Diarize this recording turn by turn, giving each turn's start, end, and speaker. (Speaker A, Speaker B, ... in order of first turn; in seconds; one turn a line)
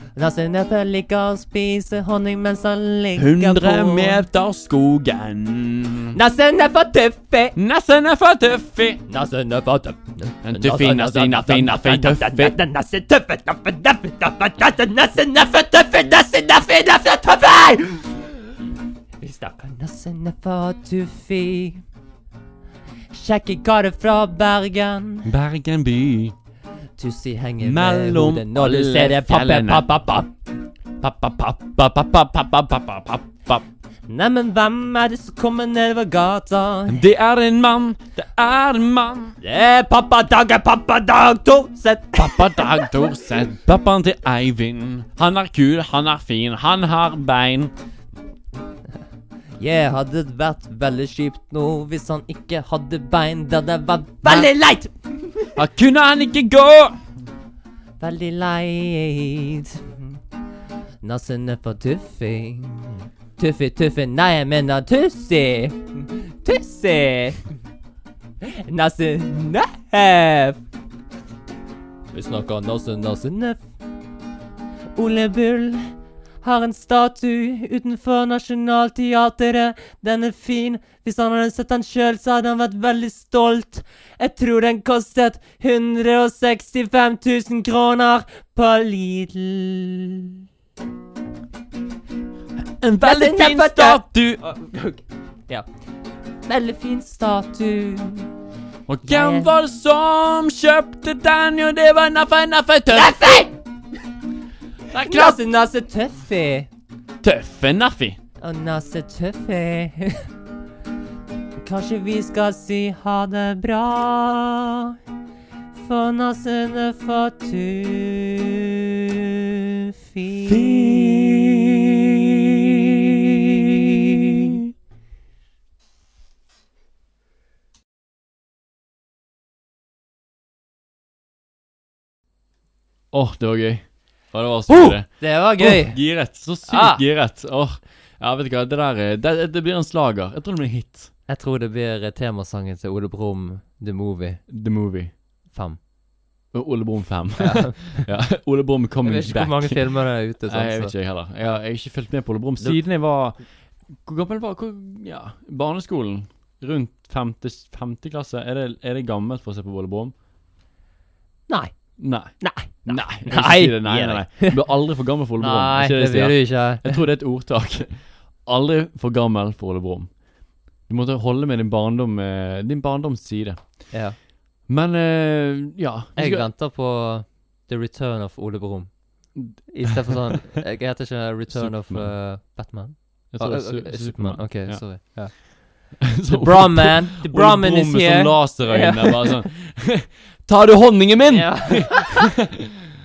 Speaker A: 0.1-4.2
Speaker B: 3.1-6.2
Speaker A: 6.1-7.5
Speaker B: 7.5-9.0
Speaker A: 9.1-18.6
Speaker B: 10.4-12.5
Speaker A: 19.2-21.8
Speaker A: 23.1-25.3
Speaker B: 25.2-26.3
Speaker A: 27.0-30.3
Speaker B: 27.6-29.9
Speaker B: 31.0-33.6
Speaker A: 34.1-37.0
Speaker B: 36.9-39.4
Speaker A: 39.4-42.8
Speaker B: 42.1-47.7
Speaker A: 49.6-55.5
Speaker B: 54.2-54.5
Speaker B: 55.5-57.0
Speaker A: 58.0-60.2
Speaker A: 61.0-67.5
Speaker A: 68.4-70.6
Speaker A: 72.1-73.6
Speaker A: 75.0-75.9
Speaker A: 76.4-90.4
Speaker B: 92.6-94.4
Speaker A: 93.0-95.6
Speaker A: 96.5-98.3
Speaker B: 98.9-103.5
Speaker A: 99.0-99.5
Speaker A: 102.9-103.6
Speaker B: 104.9-105.4
Speaker A: 104.9-106.7
Speaker B: 107.2-108.2
Speaker A: 108.4-110.3
Speaker A: 111.6-115.0
Speaker A: 115.7-119.2
Speaker A: 120.1-121.7
Speaker B: 120.5-121.6
Speaker A: 122.3-124.6
Speaker B: 133.1-141.1
Speaker A: 134.7-137.0
Speaker A: 141.3-144.4
Speaker B: 144.5-145.1
Speaker A: 145.5-145.8
Speaker B: 146.5-160.1
Speaker A: 147.4-148.1
Speaker A: 149.0-151.6
Speaker A: 161.5-164.6
Speaker B: 162.0-170.2
Speaker A: 165.4-167.0
Speaker B: 170.8-174.0
Speaker A: 173.9-174.2
Speaker B: 174.7-176.5
Speaker A: 176.2-189.5
Speaker B: 179.3-180.1
Speaker B: 181.5-182.2
Speaker B: 183.3-185.4
Speaker B: 186.0-192.6
Speaker A: 191.3-192.3